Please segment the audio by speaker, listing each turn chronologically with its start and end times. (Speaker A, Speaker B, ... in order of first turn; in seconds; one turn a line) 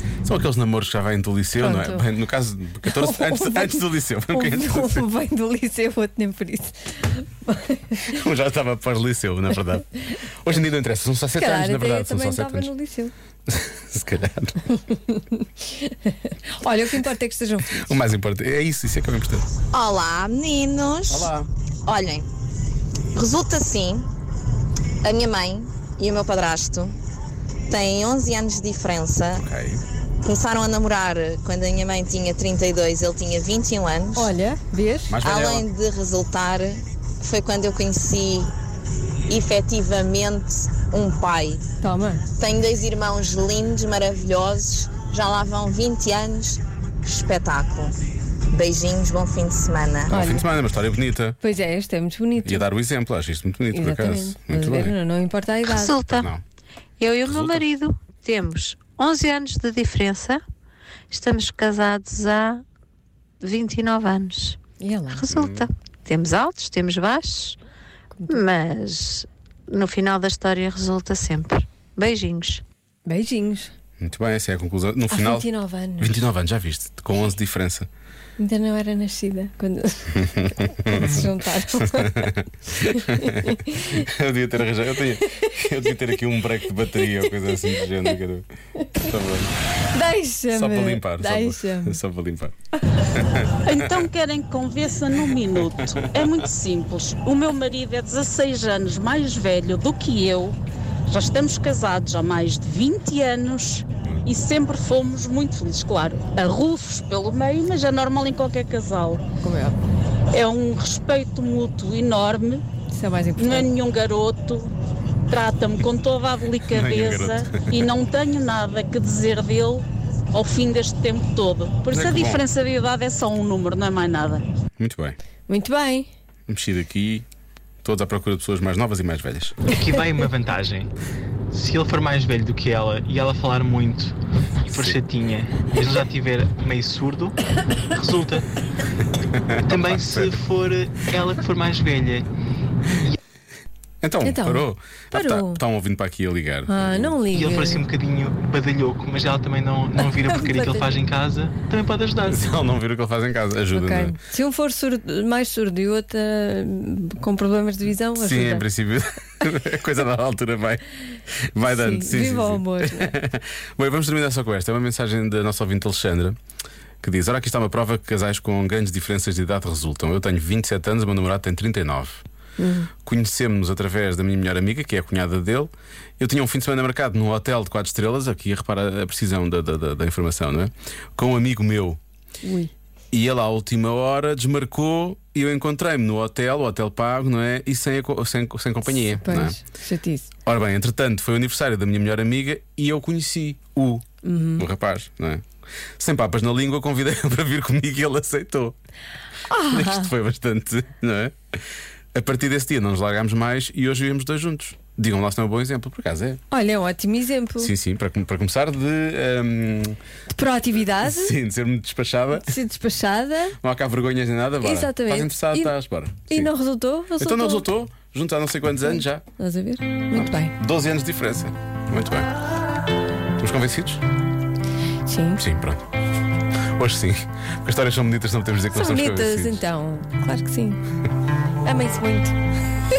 Speaker A: 0.2-5.0
Speaker B: 1.6-2.1
Speaker B: 2.8-8.1
Speaker A: 8.1-9.8
Speaker A: 10.4-12.7
Speaker B: 11.3-13.1
Speaker A: 13.5-14.5
Speaker B: 15.8-18.0
Speaker A: 17.8-19.4
Speaker C: 19.7-21.3
Speaker A: 21.1-21.5
Speaker C: 21.9-22.2
Speaker C: 23.1-24.0
Speaker C: 25.0-26.9
Speaker C: 27.7-29.4
Speaker A: 29.3-29.8
Speaker C: 30.2-34.3
Speaker B: 34.1-35.2
Speaker A: 35.1-35.7
Speaker C: 35.2-38.5
Speaker C: 39.3-41.6
Speaker B: 41.8-42.2
Speaker C: 42.3-47.9
Speaker C: 48.5-50.1
Speaker A: 50.1-51.4
Speaker B: 50.1-50.5
Speaker B: 51.4-52.6
Speaker A: 52.4-54.9
Speaker B: 53.7-55.9
Speaker D: 55.7-56.3
Speaker A: 56.0-56.4
Speaker D: 57.0-60.4
Speaker A: 57.2-57.7
Speaker D: 61.1-62.6
Speaker D: 63.4-64.6
Speaker B: 64.8-65.3
Speaker D: 65.1-67.5
Speaker A: 65.3-65.7
Speaker B: 68.2-68.4
Speaker D: 68.3-72.6
Speaker B: 73.0-73.7
Speaker A: 74.0-75.5
Speaker B: 75.1-76.2
Speaker A: 76.0-77.9
Speaker B: 78.4-82.1
Speaker A: 80.9-81.2
Speaker A: 82.0-83.4
Speaker B: 82.8-83.9
Speaker A: 83.9-89.5
Speaker B: 87.1-88.2
Speaker B: 89.9-92.0
Speaker A: 90.5-92.5
Speaker A: 93.2-94.0
Speaker E: 93.7-100.5
Speaker A: 95.2-96.4
Speaker E: 101.1-109.2
Speaker B: 109.4-109.8
Speaker E: 110.3-112.6
Speaker B: 112.9-113.7
Speaker E: 113.4-114.7
Speaker E: 115.3-124.4
Speaker A: 116.7-117.9
Speaker A: 121.9-122.5
Speaker A: 124.8-125.2
Speaker B: 125.5-126.1
Speaker A: 126.5-127.2
Speaker A: 127.8-129.6
Speaker F: 129.7-130.9
Speaker F: 131.5-134.1
Speaker A: 134.7-135.0
Speaker F: 134.7-138.4
Speaker A: 139.3-140.4
Speaker F: 139.7-142.2
Speaker A: 144.0-147.1
Speaker B: 144.2-145.6
Speaker B: 146.7-147.8
Speaker F: 147.3-152.6
Speaker B: 150.0-150.9
Speaker A: 152.2-154.1
Speaker B: 153.7-158.7
Speaker A: 158.2-160.8
Speaker A: 161.5-166.4
Speaker B: 161.6-163.1
Speaker A: 167.0-172.2
Speaker B: 172.6-172.9
Speaker A: 173.0-182.0
Speaker B: 182.4-182.7
Speaker A: 183.1-189.6
Speaker B: 189.2-190.3
Speaker A: 190.4-194.1
Speaker B: 194.2-194.6
Speaker A: 194.6-195.4
Speaker A: 196.0-198.8
Speaker B: 199.5-200.1
Speaker A: 199.7-201.3
Speaker A: 202.1-206.4
Speaker B: 206.5-207.7
Speaker A: 207.6-210.0
Speaker B: 210.3-211.3
Speaker A: 211.0-212.5
Speaker B: 212.3-213.6
Speaker A: 213.6-216.5
Speaker B: 214.6-215.7
Speaker B: 216.3-217.7
Speaker A: 217.2-219.2
Speaker B: 218.9-220.5
Speaker A: 220.1-222.3
Speaker A: 223.4-224.0
Speaker B: 225.1-225.4
Speaker A: 225.4-225.8
Speaker A: 226.8-229.6
Speaker B: 228.7-230.8
Speaker B: 231.6-232.3